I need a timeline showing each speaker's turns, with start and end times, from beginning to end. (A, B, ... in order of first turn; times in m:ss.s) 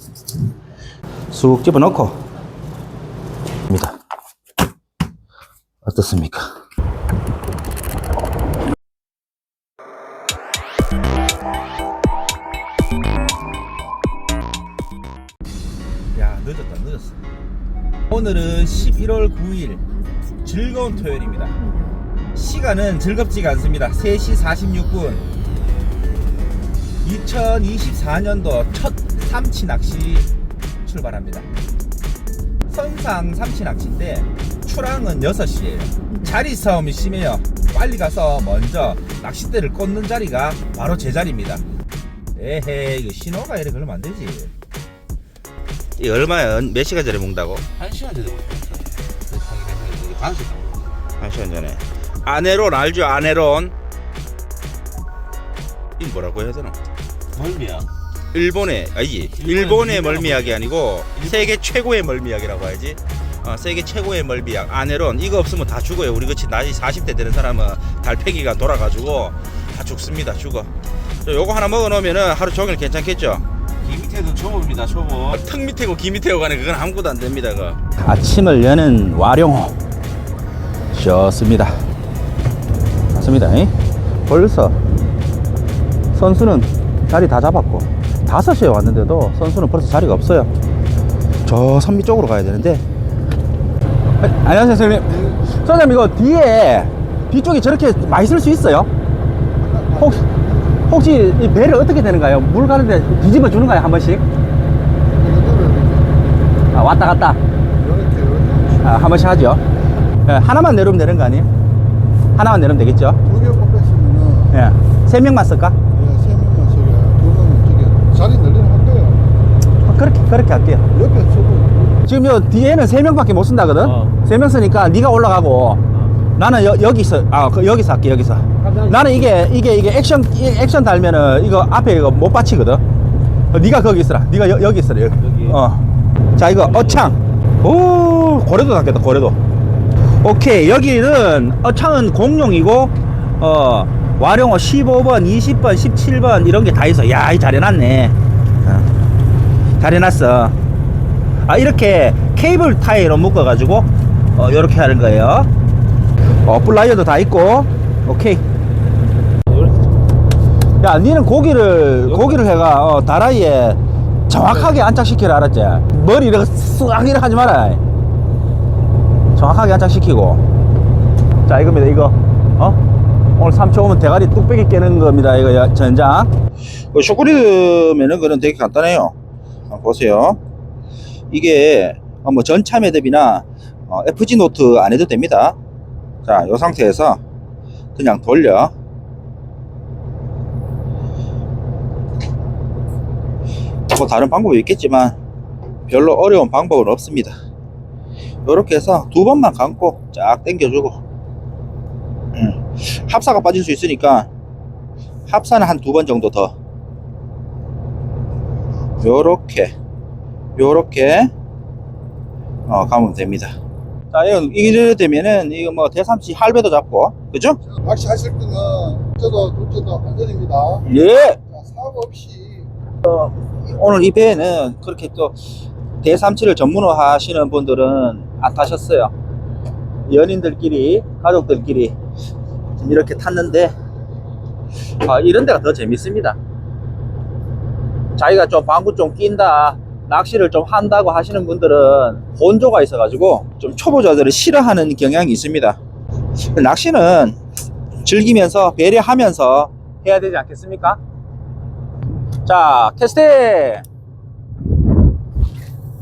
0:01.3-0:02.2 A
0:03.7-0:04.0 A
0:05.8-0:06.5 A
0:16.1-0:17.2 A
0:18.1-0:19.8 A
0:20.4-0:21.8 A
0:22.3-0:25.2 A
0:27.0-0:30.3 A
0:30.8-0:31.5 A
0:32.7-0:41.6 A
0:42.4-0:44.5 A
0:46.0-0:47.9 A
0:47.8-0:50.9 B
0:50.1-0:53.8 A
0:56.0-0:56.8 A
0:57.4-1:10.7 A
0:57.5-0:57.8 B
0:59.5-1:00.4 B
1:11.2-1:19.8 A
1:20.9-1:21.8 A
1:23.1-1:24.8 A
1:26.1-1:30.5 A
1:31.4-1:32.8 A
1:34.2-1:38.9 A
1:39.8-1:40.3 A
1:40.9-1:44.2 A
1:45.2-1:46.1 C
1:46.7-1:47.4 A
1:47.9-1:48.6 C
1:48.7-1:49.6 A
1:50.2-1:51.5 A
1:52.4-1:53.2 A
1:53.4-1:54.4 C
1:54.5-1:55.8 A
1:56.0-1:59.2 C
1:59.8-2:01.0 A
2:01.1-2:01.7 C
2:02.0-2:05.8 A
2:06.4-2:12.8 A
2:08.6-2:09.0 B
2:13.5-2:15.8 A
2:15.2-2:15.5 B
2:16.4-2:19.4 A
2:20.2-2:28.9 A
2:29.8-2:30.6 A
2:31.4-2:35.5 A
2:36.3-2:38.4 A
2:40.8-2:47.8 A
2:49.3-2:50.4 A
2:51.4-2:52.8 A
2:53.4-2:56.3 A
2:56.9-2:59.1 A
2:59.7-3:00.4 A
3:01.3-3:05.6 A
3:06.2-3:07.2 A
3:07.9-3:08.7 A
3:13.9-3:15.2 A
3:15.9-3:17.4 A
3:18.4-3:21.0 A
3:22.3-3:24.3 A
3:25.3-3:26.5 A
3:29.0-3:29.7 A
3:30.6-3:31.3 A
3:32.7-3:33.5 A
3:34.1-3:37.6 A
3:37.8-3:40.7 C
3:40.8-3:41.4 A
3:41.8-3:42.6 C
3:43.0-3:45.4 A
3:46.0-3:49.1 A
3:50.0-3:51.9 A
3:52.8-3:53.7 A
3:55.0-3:56.4 A
3:58.2-4:05.8 A
4:06.4-4:07.4 A
4:08.0-4:11.0 A
4:12.4-4:13.8 A